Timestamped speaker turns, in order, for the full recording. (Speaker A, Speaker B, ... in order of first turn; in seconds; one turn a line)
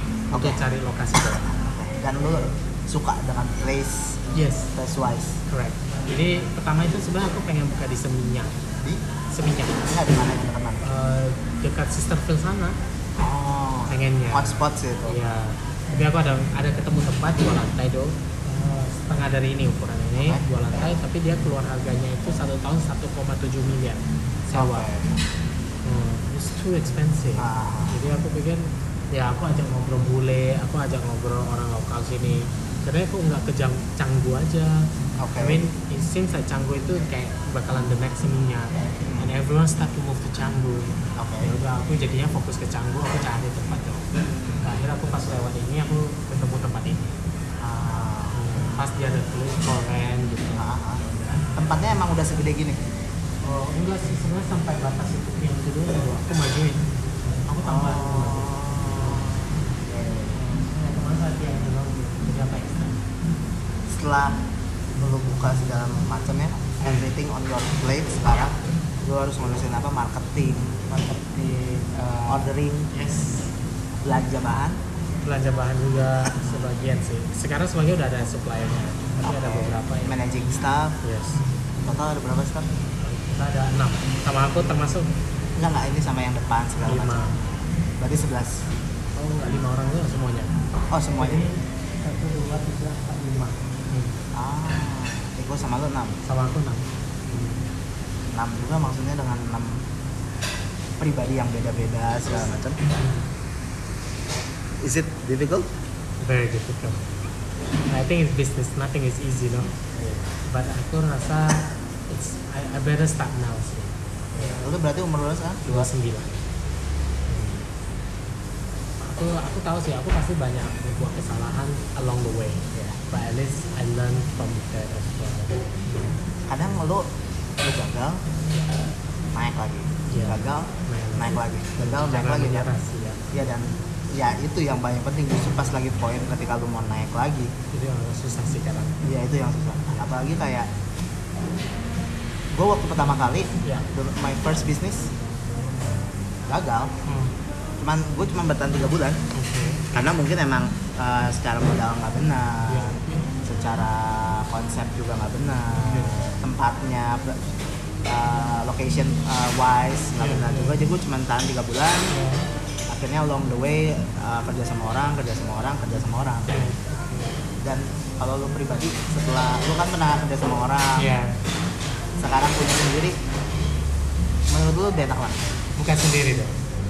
Speaker A: 0.3-0.6
Speaker B: 0.3-1.6
Speaker A: 1.5-4.2
Speaker B: 4.3-4.7
Speaker A: 4.7-5.4
Speaker B: 5.5-8.6
Speaker B: 9.3-9.9
Speaker A: 9.8-10.9
Speaker B: 10.8-12.8
Speaker A: 13.2-15.2
Speaker B: 13.9-24.9
Speaker A: 20.2-20.4
Speaker A: 24.5-25.2
Speaker B: 25.8-44.0
Speaker A: 27.4-27.9
Speaker A: 35.2-35.6
Speaker A: 39.0-39.3
Speaker A: 41.1-41.5
Speaker A: 44.3-45.3
Speaker B: 44.6-47.1
Speaker A: 47.6-48.8
Speaker B: 48.3-50.7
Speaker A: 50.6-52.8
Speaker B: 53.4-59.5
Speaker A: 57.6-60.4
Speaker B: 60.3-63.0
Speaker A: 63.9-64.4
Speaker A: 64.9-71.0
Speaker B: 66.8-67.1
Speaker B: 70.9-73.5
Speaker A: 72.3-72.9
Speaker A: 74.0-74.8
Speaker B: 75.2-80.2
Speaker A: 79.2-81.0
Speaker B: 81.0-81.4
Speaker A: 81.8-82.7
Speaker B: 83.0-85.1
Speaker A: 85.5-87.3
Speaker B: 86.8-87.4
Speaker A: 88.0-88.7
Speaker B: 89.2-90.5
Speaker A: 90.9-91.4
Speaker B: 91.2-94.2
Speaker A: 94.3-96.2
Speaker B: 96.2-97.6
Speaker A: 98.3-99.8
Speaker A: 101.0-102.8
Speaker B: 102.9-103.3
Speaker A: 104.8-105.7
Speaker B: 106.2-107.1
Speaker B: 107.9-114.7
Speaker A: 114.3-115.9
Speaker B: 115.7-116.4
Speaker B: 117.3-117.6
Speaker B: 119.0-126.2
Speaker A: 126.5-127.1
Speaker A: 127.6-128.2
Speaker A: 129.3-132.7
Speaker B: 130.1-133.2
Speaker A: 133.3-137.5
Speaker B: 137.7-139.0
Speaker A: 139.0-140.7
Speaker A: 142.5-145.1
Speaker A: 146.5-146.9
Speaker B: 147.1-147.3
Speaker A: 147.8-149.2
Speaker B: 149.3-150.1
Speaker A: 149.9-157.5
Speaker B: 152.7-153.3
Speaker B: 155.8-156.2
Speaker A: 158.0-162.1
Speaker B: 160.2-160.8
Speaker B: 162.1-162.4
Speaker A: 162.9-166.7
Speaker B: 166.5-167.4
Speaker A: 167.6-171.0
Speaker B: 170.9-171.4
Speaker A: 172.2-173.2
Speaker A: 174.5-175.4
Speaker B: 175.8-176.6